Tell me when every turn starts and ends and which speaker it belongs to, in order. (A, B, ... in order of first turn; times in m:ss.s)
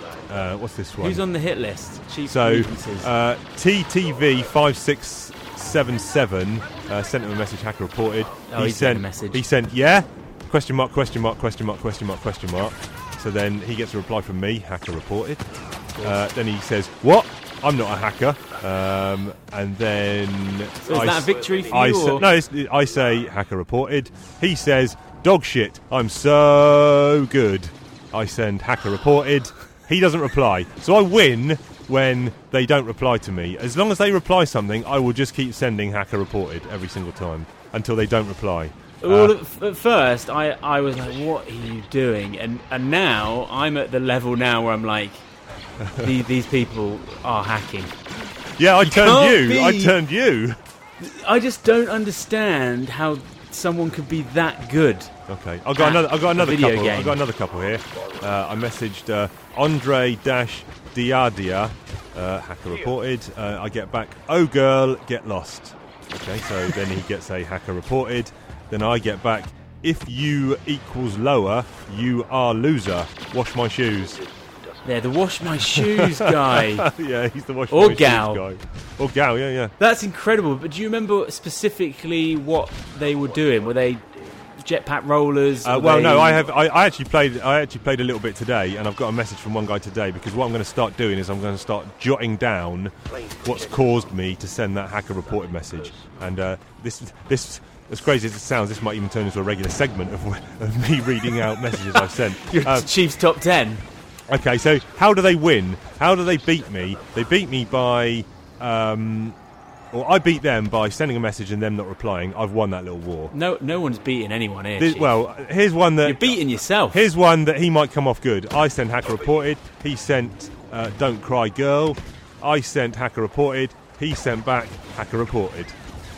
0:00.3-0:01.2 A
0:01.0-0:03.1 B
0:02.3-0:39.3 A
0:08.5-0:09.4 B
0:16.0-0:16.2 B
0:20.8-0:22.3 B
0:39.0-0:45.3 B
0:45.8-0:46.1 A
0:46.0-0:47.9 B
0:48.5-0:50.6 A
0:48.8-0:50.0 B
0:51.0-0:55.1 B
0:55.3-1:14.2 A
0:55.8-0:57.2 B
1:14.8-1:16.9 B
1:15.7-1:19.7 A
1:17.7-1:18.4 B
1:19.8-1:24.0 B
1:24.6-1:26.5 B
1:25.6-1:42.9 A
1:41.9-1:43.8 B
1:44.3-1:49.4 A
1:49.9-1:53.3 A
1:53.3-1:55.2 B
1:54.8-1:56.4 A
1:56.0-1:57.0 B
1:56.9-2:05.8 A